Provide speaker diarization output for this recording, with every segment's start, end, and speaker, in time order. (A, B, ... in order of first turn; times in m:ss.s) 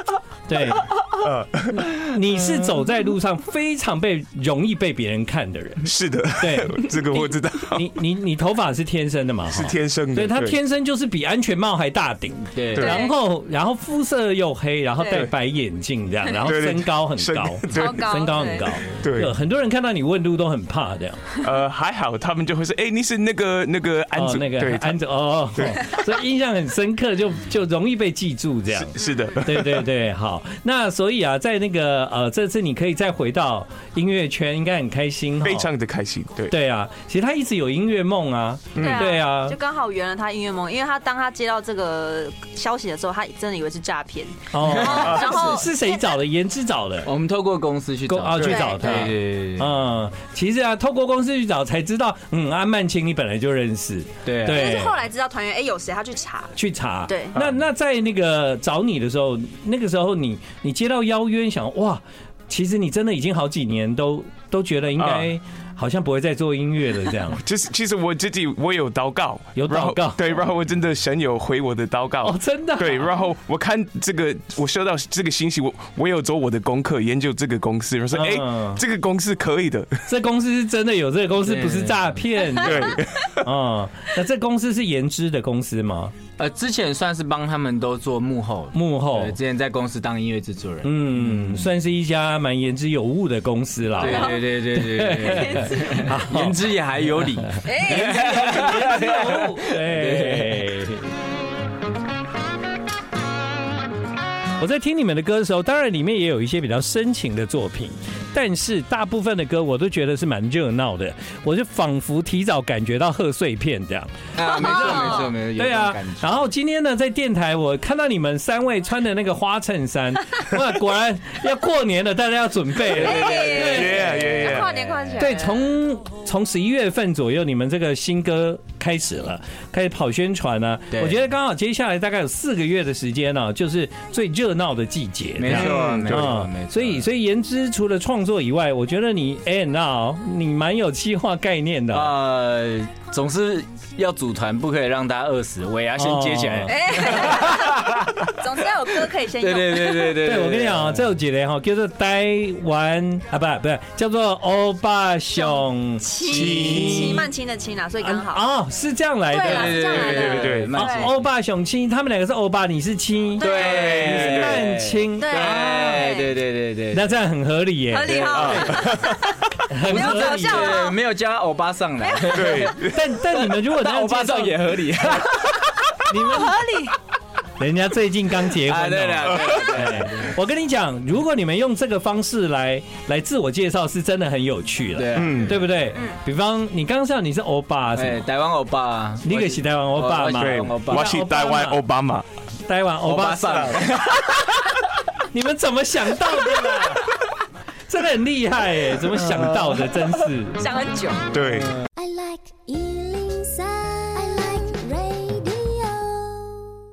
0:00.5-0:00.9 A
0:01.2-0:02.0 B
0:02.0-0:21.2 A
0:05.8-0:07.9 B
0:09.5-0:10.6 B
0:12.5-0:12.9 C
0:12.7-0:13.1 B
0:12.8-0:13.1 D
0:15.0-0:15.3 D
0:16.4-0:18.2 B
0:17.7-0:18.7 D
0:18.8-0:19.3 B
0:21.4-0:25.0 B
0:24.1-0:35.7 A
0:25.5-0:25.9 B
0:28.8-0:29.8 B
0:29.0-0:29.3 D
0:35.4-0:36.5 B
0:36.5-0:39.6 A
0:38.8-0:39.1 B
0:38.8-0:45.9 D
0:44.5-0:47.1 A
0:44.6-0:45.4 C
0:45.0-0:45.3 B
0:47.0-0:49.7 C
0:48.1-0:55.0 A
0:48.4-0:49.0 D
0:54.2-0:54.7 C
0:54.5-0:56.5 D
0:56.6-1:07.4 A
0:57.1-0:57.3 D
1:05.0-1:05.3 B
1:07.4-1:20.0 B
1:09.6-1:10.2 A
1:12.2-1:13.1 A
1:18.1-1:18.8 A
1:20.1-1:26.1 A
1:21.4-1:22.1 C
1:22.5-1:23.4 B
1:26.4-1:31.7 C
1:28.7-1:29.4 A
1:30.8-1:36.6 A
1:34.0-1:40.8 C
1:34.0-1:34.4 D
1:35.3-1:35.8 D
1:37.6-1:38.8 D
1:37.8-1:41.1 A
1:44.6-2:04.0 A
1:54.3-1:56.4 C
1:54.4-1:55.3 D
2:02.9-2:05.2 C
2:03.0-2:05.7 D
2:03.6-2:04.8 B
2:05.2-2:22.1 A
2:10.9-2:11.2 C
2:15.4-2:17.0 C
2:15.5-2:16.3 B
2:21.9-2:28.3 C
2:26.0-2:26.8 A
2:26.7-2:30.2 D
2:29.4-2:31.0 C
2:30.2-2:37.2 A
2:35.4-2:38.4 D
2:36.2-2:37.2 B
2:36.4-2:37.0 C
2:38.0-2:46.1 A
2:39.3-2:41.1 D
2:39.4-2:41.2 C
2:40.3-2:40.7 B
2:43.4-2:44.0 D
2:43.4-2:47.1 C
2:43.6-2:44.7 B
2:45.2-2:46.4 D
2:46.9-2:48.8 A
2:47.9-2:51.0 D
2:48.3-2:49.2 B
2:49.7-2:50.8 A
2:49.9-2:55.7 C
2:52.2-2:52.6 D
2:52.3-2:53.0 B
2:52.8-2:54.6 A
2:56.1-2:56.6 A
2:56.1-2:57.0 D
2:57.6-3:08.2 A
2:58.6-3:00.4 C
3:05.0-3:05.6 C
3:05.1-3:05.6 B
3:08.0-3:11.1 C
3:09.2-3:11.8 A
3:10.3-3:12.2 B
3:12.6-3:13.8 A
3:13.0-3:14.3 C
3:15.3-3:17.1 A
3:17.9-3:20.7 A
3:20.6-3:21.3 D
3:21.3-3:21.8 B
3:21.9-3:26.7 E